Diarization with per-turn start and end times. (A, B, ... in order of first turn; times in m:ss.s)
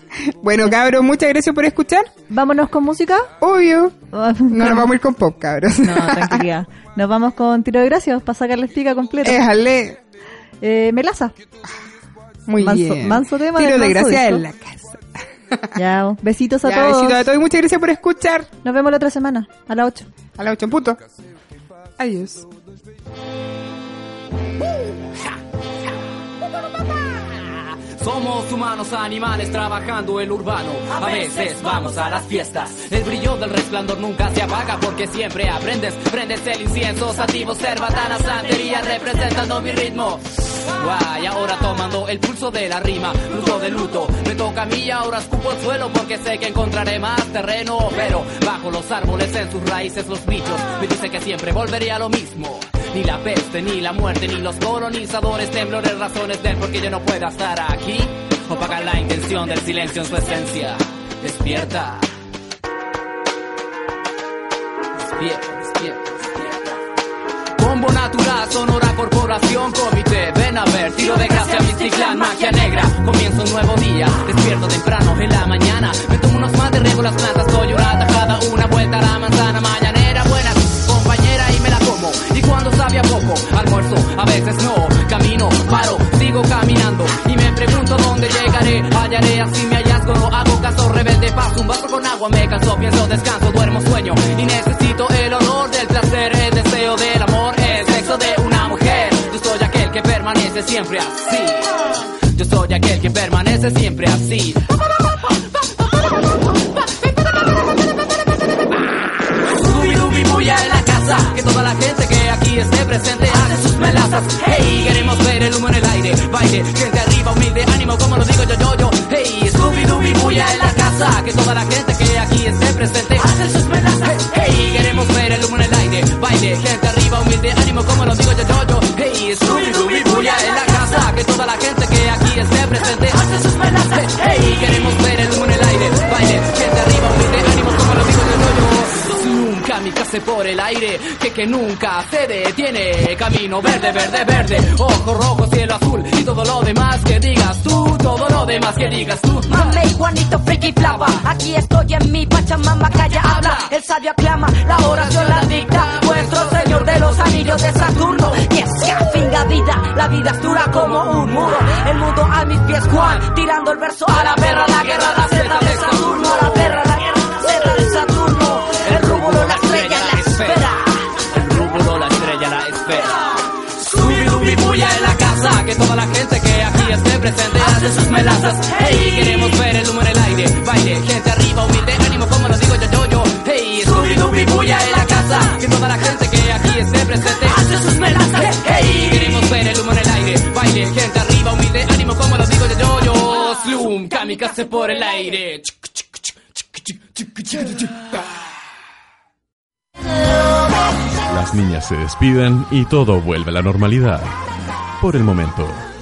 0:00.3-0:02.1 A
0:02.3-0:03.3 B
0:03.4-0:04.0 A
0:04.1-0:04.9 B
0:04.5-0:06.4 A
0:05.8-0:09.4 B
0:09.2-0:10.0 A
0:10.6-0:11.3 B
0:12.5-0:15.7 A
0:12.6-0:14.4 B
0:15.8-0:17.3 B
0:16.6-0:18.5 A
0:18.6-0:20.1 B
0:20.4-0:21.0 A
0:22.0-0:22.5 A
0:28.0-1:02.0 C
1:05.1-1:06.6 C
1:07.6-1:44.6 C
1:49.5-2:29.7 C
2:29.7-2:49.5 D
2:30.8-2:31.2 C
2:35.0-2:37.4 C
2:44.4-2:46.6 C
2:48.8-2:50.7 C
2:50.1-2:50.8 D
2:51.3-2:53.2 C
2:53.8-3:07.7 C
3:07.6-3:08.9 D
3:08.4-3:16.0 C
3:17.2-3:17.9 C
3:21.3-3:24.4 E
3:25.0-3:25.8 E